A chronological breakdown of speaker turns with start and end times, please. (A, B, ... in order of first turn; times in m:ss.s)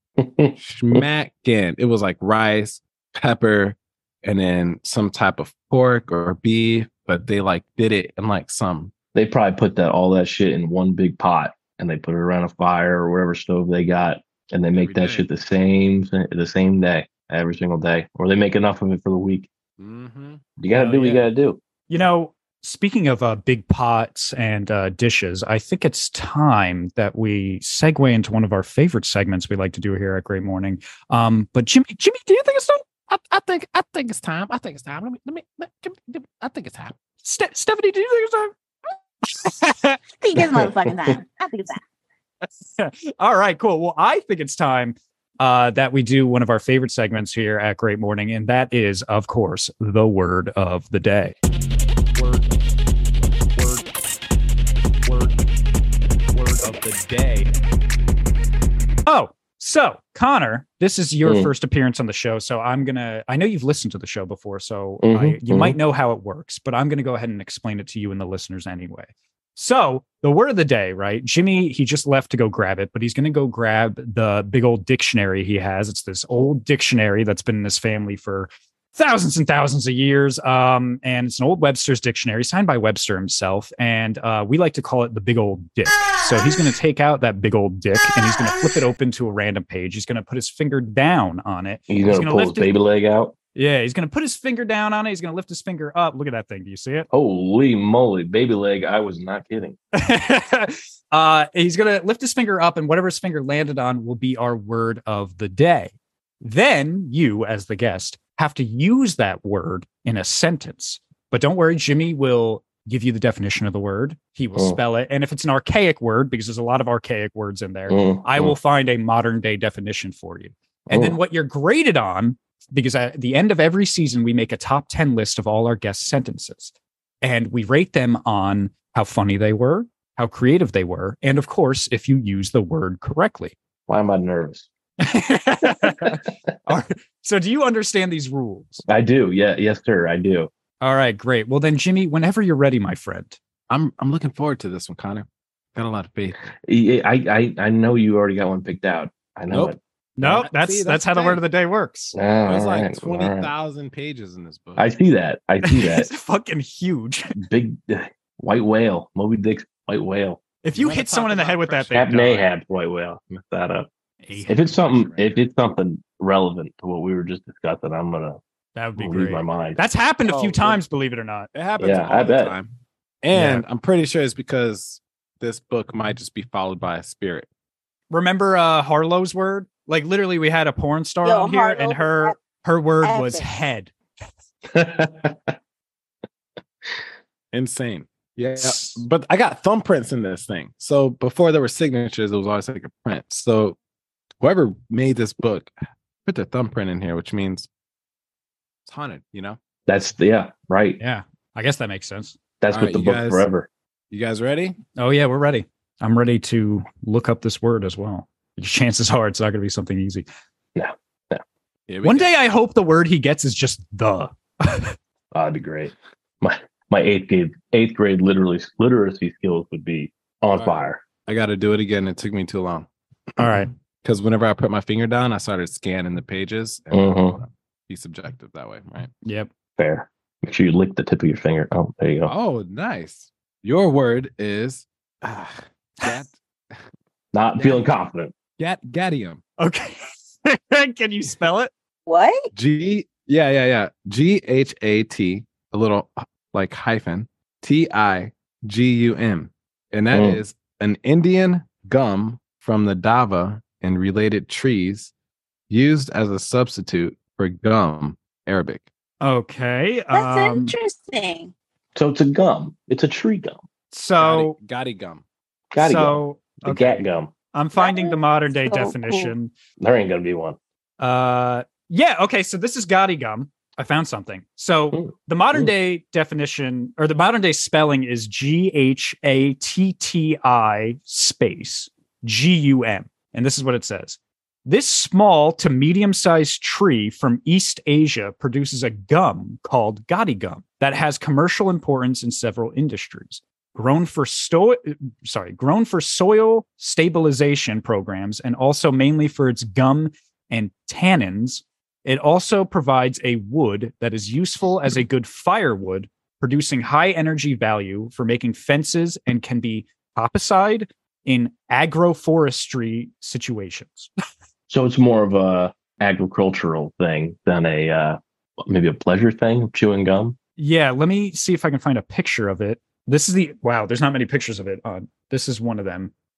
0:00.2-0:01.0 A
0:00.6-0:08.9 B
0:09.1-0:19.5 A
0:14.7-0:15.3 B
0:19.8-0:20.4 B
0:20.6-0:21.6 A
0:20.7-0:21.3 C
0:21.9-0:32.8 C
0:33.1-0:37.0 B
0:37.2-0:38.5 C
0:39.2-0:40.0 C
0:40.2-0:41.8 D
0:42.4-0:51.4 C
0:52.2-0:52.6 C
0:53.5-0:53.9 C
0:55.0-0:55.4 C
0:56.3-0:57.5 C
0:59.1-1:32.7 C
1:01.2-1:01.5 A
1:05.0-1:05.8 A
1:31.9-1:33.3 A
1:33.6-1:37.1 C
1:37.1-1:39.8 A
1:39.9-2:13.6 C
1:57.9-1:58.6 A
2:00.9-2:01.2 A
2:13.9-2:14.7 A
2:15.0-2:18.8 C
2:18.9-2:20.5 A
2:20.8-2:23.4 C
2:23.7-2:26.5 B
2:26.6-2:29.8 A
2:29.5-2:31.4 B
2:30.2-2:32.2 C
2:32.1-2:33.5 A
2:32.5-2:34.9 B
2:34.8-2:36.1 A
2:35.6-2:37.4 C
2:37.4-2:40.4 A
2:40.6-2:42.4 C
2:40.8-2:42.1 B
2:41.9-2:43.9 A
2:44.2-2:45.1 C
2:44.3-2:45.4 B
2:44.5-2:48.4 A
2:48.8-2:51.5 C
2:49.0-2:49.8 A
2:50.2-2:50.8 B
2:51.5-2:52.7 B
2:51.8-2:52.6 A
2:53.2-2:57.5 B
2:53.3-2:53.6 C
2:58.1-3:03.9 C
3:01.2-3:02.4 D
3:03.0-3:03.5 D
3:04.7-3:05.5 A
3:07.5-3:13.8 B
3:08.6-3:09.0 C
3:14.4-3:15.7 B
3:16.2-3:17.7 B
3:18.8-3:19.6 B
3:19.9-3:21.0 A
3:21.0-3:22.4 C
3:22.6-3:23.7 A
3:22.7-3:23.5 B
3:24.1-3:24.8 B
3:25.0-3:30.3 C
3:30.8-3:31.4 A
3:31.9-3:32.3 B
3:32.0-3:35.0 C
3:35.3-3:41.0 A
3:40.6-3:49.1 B
3:43.4-3:43.7 C
3:46.9-3:47.4 A
3:49.2-3:49.5 C
3:49.8-3:52.3 A
3:52.3-3:56.8 B
3:57.3-3:58.3 A
3:58.6-3:59.4 B
3:59.6-4:01.7 C
4:02.1-4:02.5 D
4:02.5-4:15.1 B
4:10.1-4:10.4 A
4:15.7-4:18.9 B
4:19.2-4:20.8 C
4:20.1-4:21.5 D
4:22.0-4:23.6 A
4:23.9-4:24.6 C
4:24.2-4:25.2 B
4:25.7-4:27.3 A
4:25.8-4:29.6 C
4:27.8-4:29.3 D
4:29.8-4:30.6 A
4:31.0-5:14.1 C
4:34.9-4:35.7 A
5:14.7-5:20.4 A
5:20.6-5:26.1 C